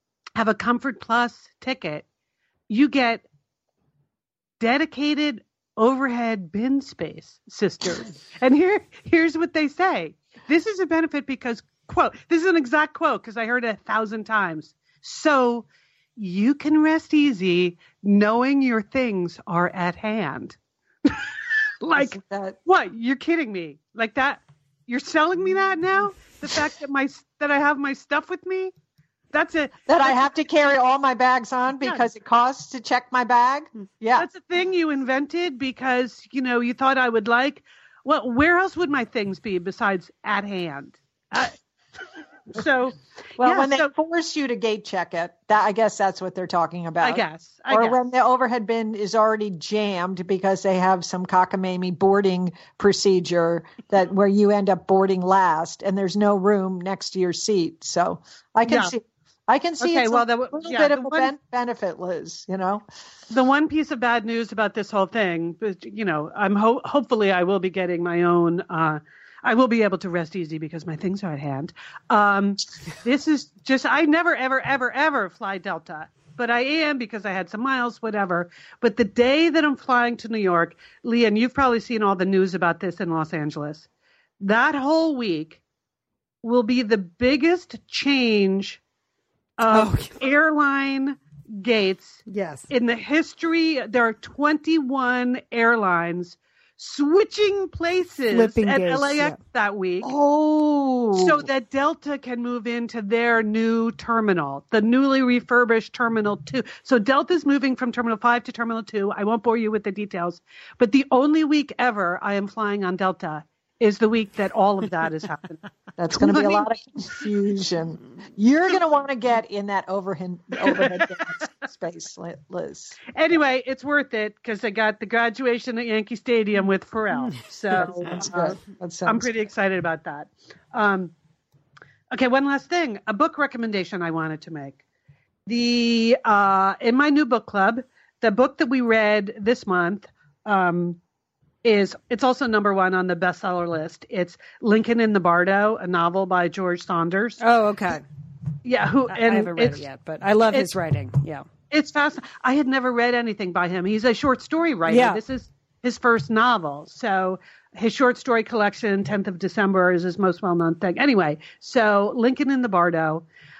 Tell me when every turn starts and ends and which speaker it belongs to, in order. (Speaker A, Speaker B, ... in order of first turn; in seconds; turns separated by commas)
Speaker A: 0.3-2.0, Speaker A: 2.7-3.2, Speaker A: 4.6-21.3, Speaker A: 21.8-28.7, Speaker B: 21.9-22.6, Speaker A: 29.3-30.2, Speaker B: 29.9-34.2, Speaker A: 34.1-41.5, Speaker A: 42.5-43.9, Speaker B: 43.4-62.8, Speaker A: 47.0-48.0, Speaker A: 58.6-58.9, Speaker A: 59.8-61.3, Speaker A: 63.3-83.9, Speaker A: 84.4-85.6, Speaker A: 86.4-88.8, Speaker A: 89.6-100.1, Speaker C: 89.7-90.1, Speaker C: 92.3-92.7, Speaker C: 98.3-99.4, Speaker B: 100.0-101.4, Speaker A: 101.1-115.6, Speaker B: 116.0-123.0, Speaker A: 116.1-116.7, Speaker A: 120.6-121.1, Speaker A: 123.1-128.5, Speaker C: 127.2-128.1, Speaker B: 127.7-129.2, Speaker A: 129.1-131.1, Speaker A: 132.1-134.8, Speaker A: 135.4-141.0, Speaker A: 141.6-147.4, Speaker C: 147.4-148.0, Speaker A: 148.6-149.8, Speaker C: 149.1-151.4, Speaker A: 151.7-163.2, Speaker C: 154.9-155.2